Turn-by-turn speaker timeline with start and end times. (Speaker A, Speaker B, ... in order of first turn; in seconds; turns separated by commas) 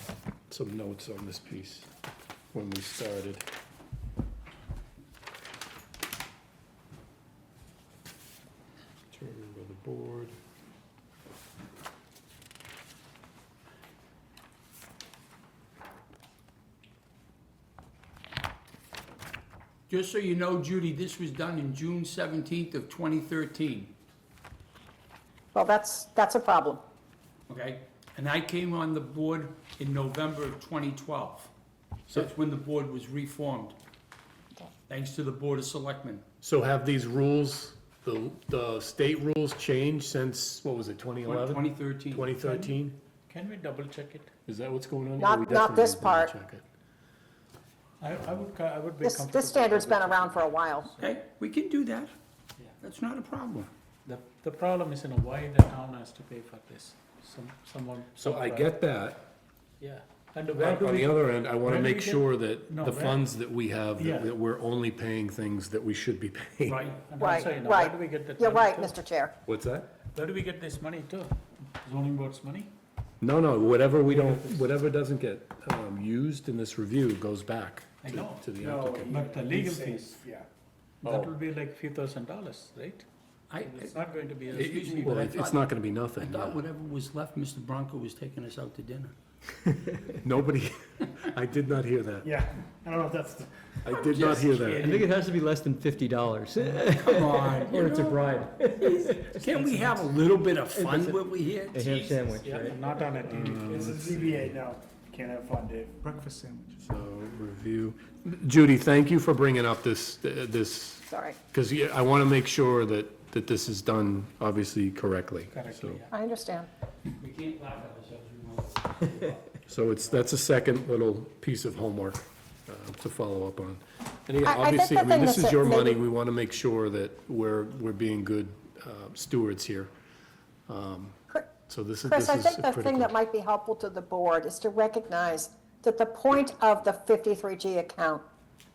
Speaker A: 0.5-1.9, Speaker A: 2.5-3.4, Speaker A: 9.1-10.4, Speaker B: 19.9-23.9, Speaker C: 25.5-26.8, Speaker B: 27.5-31.5, Speaker B: 32.1-33.8, Speaker B: 34.9-36.2, Speaker A: 36.4-43.0, Speaker B: 41.2-42.3, Speaker D: 42.3-42.8, Speaker D: 43.3-44.3, Speaker A: 44.5-46.6, Speaker C: 45.2-46.3, Speaker D: 48.0-51.0, Speaker C: 49.0-50.9, Speaker B: 51.0-52.1, Speaker B: 52.8-53.7, Speaker D: 54.1-58.7, Speaker A: 58.2-59.3, Speaker D: 59.8-63.2, Speaker A: 60.5-66.8, Speaker D: 64.0-64.3, Speaker D: 66.7-68.9, Speaker C: 67.2-69.3, Speaker A: 69.5-69.9, Speaker D: 70.1-72.7, Speaker A: 73.2-79.1, Speaker D: 74.0-74.7, Speaker D: 78.1-78.6, Speaker E: 78.6-80.5, Speaker D: 79.1-80.2, Speaker D: 81.0-83.0, Speaker B: 83.5-89.1, Speaker D: 83.6-85.1, Speaker A: 84.5-86.6, Speaker A: 90.1-92.3, Speaker E: 92.2-93.5, Speaker A: 93.8-94.9, Speaker B: 94.1-95.1, Speaker D: 94.7-95.0, Speaker F: 94.8-100.0, Speaker B: 96.6-102.5, Speaker F: 100.8-101.2, Speaker F: 101.7-102.8, Speaker D: 102.4-103.8, Speaker A: 103.2-104.5, Speaker E: 103.5-106.8, Speaker A: 106.8-116.0, Speaker C: 111.1-111.4, Speaker D: 115.5-116.1, Speaker C: 116.1-116.7, Speaker B: 117.2-119.6, Speaker A: 119.7-129.9, Speaker C: 124.4-126.0, Speaker A: 130.7-133.1, Speaker C: 132.0-138.2